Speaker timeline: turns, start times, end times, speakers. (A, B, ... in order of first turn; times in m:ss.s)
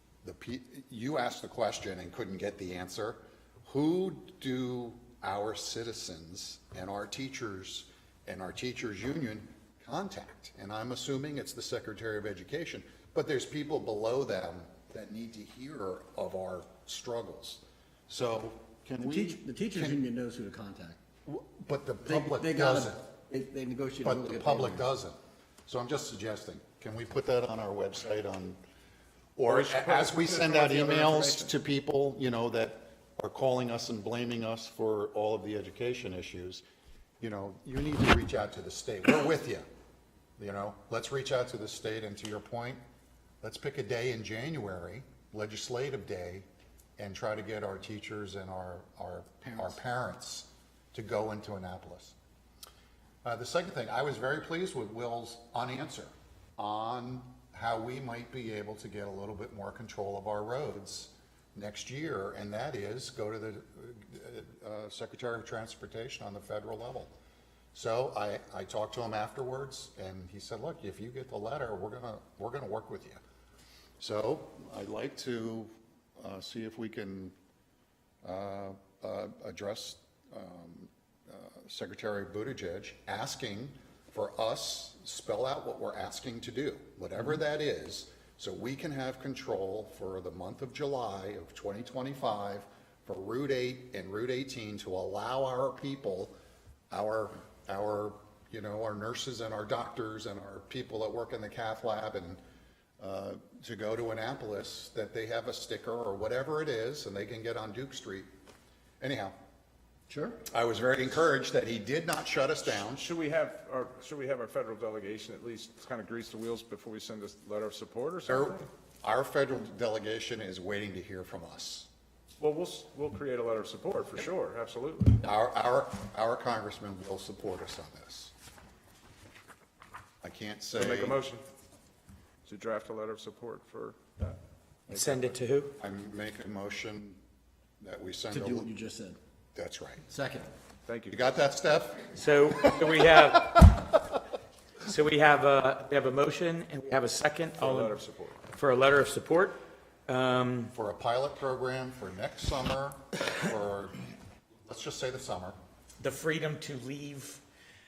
0:00.2-0:20.0 A
0:19.0-0:21.0 B
0:21.2-0:23.0 A
0:22.0-0:24.8 B
0:24.0-0:28.6 A
0:29.4-0:36.6 A
0:29.4-0:31.5 C
0:37.2-0:39.6 A
0:40.4-0:42.8 A
0:43.4-0:46.4 A
0:47.0-0:52.1 A
0:53.2-1:07.1 A
1:07.7-1:13.2 A
1:14.0-1:17.3 A
1:18.2-1:36.3 A
1:36.9-1:42.4 A
1:43.0-1:48.3 A
1:49.0-1:49.4 A
1:50.1-1:50.4 B
1:50.4-1:53.1 A
1:52.6-1:58.7 C
1:58.3-2:01.9 A
2:02.4-2:05.2 C
2:05.2-2:08.3 A
2:10.2-2:11.2 A
2:10.7-2:11.4 C
2:12.4-2:14.4 C
2:14.9-2:17.2 A
2:14.9-2:15.7 D
2:17.8-2:18.7 A
2:18.3-2:19.2 B
2:19.5-2:20.0 A
2:20.1-2:20.5 B
2:20.9-2:21.3 C
2:21.1-2:23.7 A
2:22.1-2:23.9 D
2:24.8-2:28.0 D
2:27.6-2:28.4 C
2:28.5-2:30.7 D
2:30.7-2:34.0 A
2:34.6-2:35.6 A
2:36.0-2:37.4 D